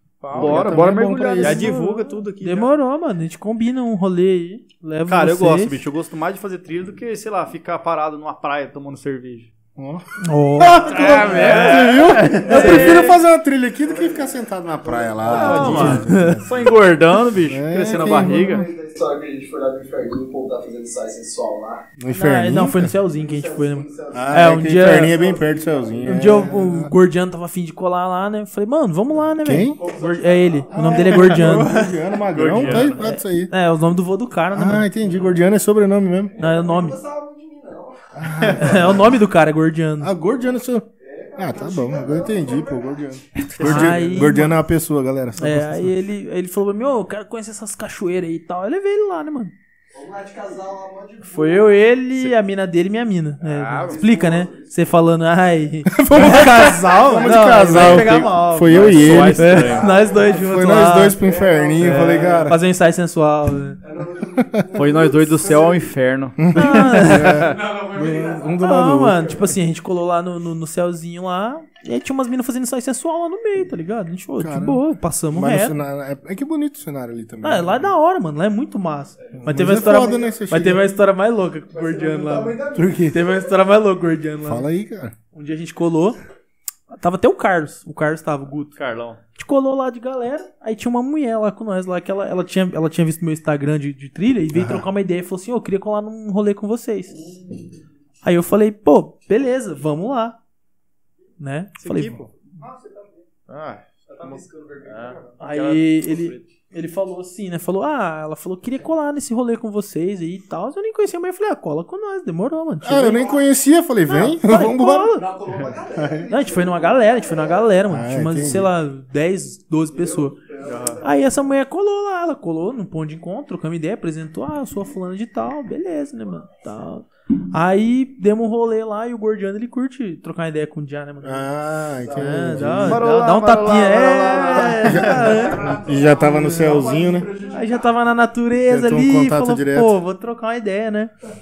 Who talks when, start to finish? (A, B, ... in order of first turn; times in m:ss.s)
0:00.2-0:00.8 A
0:00.3-0:01.7 B
0:00.3-0:01.7 C
0:01.2-0:05.8 D
0:01.4-0:02.7 A
0:05.1-0:09.5 B
0:09.8-0:16.8 C
0:10.2-0:13.0 D
0:10.8-0:13.1 B
0:12.5-0:13.1 E
0:13.8-0:16.0 E
0:15.3-0:16.0 A
0:15.3-0:18.6 B
0:15.5-0:16.4 D
0:17.4-0:18.6 C
0:18.0-0:21.8 E
0:22.0-0:22.9 C
0:22.1-0:25.2 D
0:23.1-0:26.6 E
0:24.1-0:26.9 C
0:26.0-0:31.8 D
0:29.4-0:29.8 C
0:29.7-0:30.9 E
0:30.7-0:33.5 C
0:31.4-0:31.8 A
0:31.6-0:31.9 E
0:32.3-0:33.0 B
0:32.7-0:35.2 D
0:34.5-0:36.3 C
0:36.3-0:39.0 E
0:36.4-0:37.0 D
0:38.1-0:39.2 C
0:38.5-0:40.1 D
0:40.0-0:45.9 C
0:41.0-0:43.2 E
0:43.4-0:44.6 D
0:43.6-0:44.0 B
0:43.9-0:44.3 E
0:45.4-0:49.5 D
0:49.9-0:51.7 E
0:51.2-1:01.2 D
0:53.4-0:54.0 B
0:53.7-0:54.8 E
0:55.9-0:59.7 C
0:57.6-0:59.9 B
0:58.9-1:02.5 E
1:00.3-1:02.6 C
1:01.8-1:02.4 B
1:01.8-1:03.8 D
1:03.8-1:05.9 E
1:04.4-1:04.7 C
1:04.7-1:07.8 B
1:06.4-1:09.4 C
1:06.5-1:07.6 D
1:08.1-1:08.5 E
1:08.6-1:15.8 D
1:14.4-1:17.9 C
1:17.4-1:24.6 D
1:19.3-1:20.4 E
1:19.3-1:20.9 C
1:21.7-1:23.5 E
1:22.7-1:23.2 C
1:24.4-1:25.1 C
1:25.3-1:26.2 D
1:26.9-1:28.8 D
1:28.8-1:29.2 B
1:29.3-1:37.3 D
1:34.5-1:34.9 C
1:38.2-1:40.4 D
1:41.4-1:42.2 D
1:41.8-1:42.3 A
1:42.6-1:43.2 E
1:43.5-1:45.2 A
1:44.0-1:45.3 E
1:44.8-1:46.4 B
1:45.4-1:53.3 D
1:52.8-1:55.2 C
1:54.1-1:55.3 D
1:55.3-1:57.8 E
1:55.9-1:56.3 C
1:56.3-2:00.4 D
1:57.9-1:58.7 C
1:59.9-2:01.2 E
2:00.6-2:01.0 B
2:01.0-2:11.5 D
2:11.2-2:13.0 C
2:12.1-2:15.8 D
2:12.8-2:15.7 B
2:14.8-2:17.3 C
2:15.1-2:17.8 E
2:17.4-2:21.1 D
2:18.6-2:20.0 C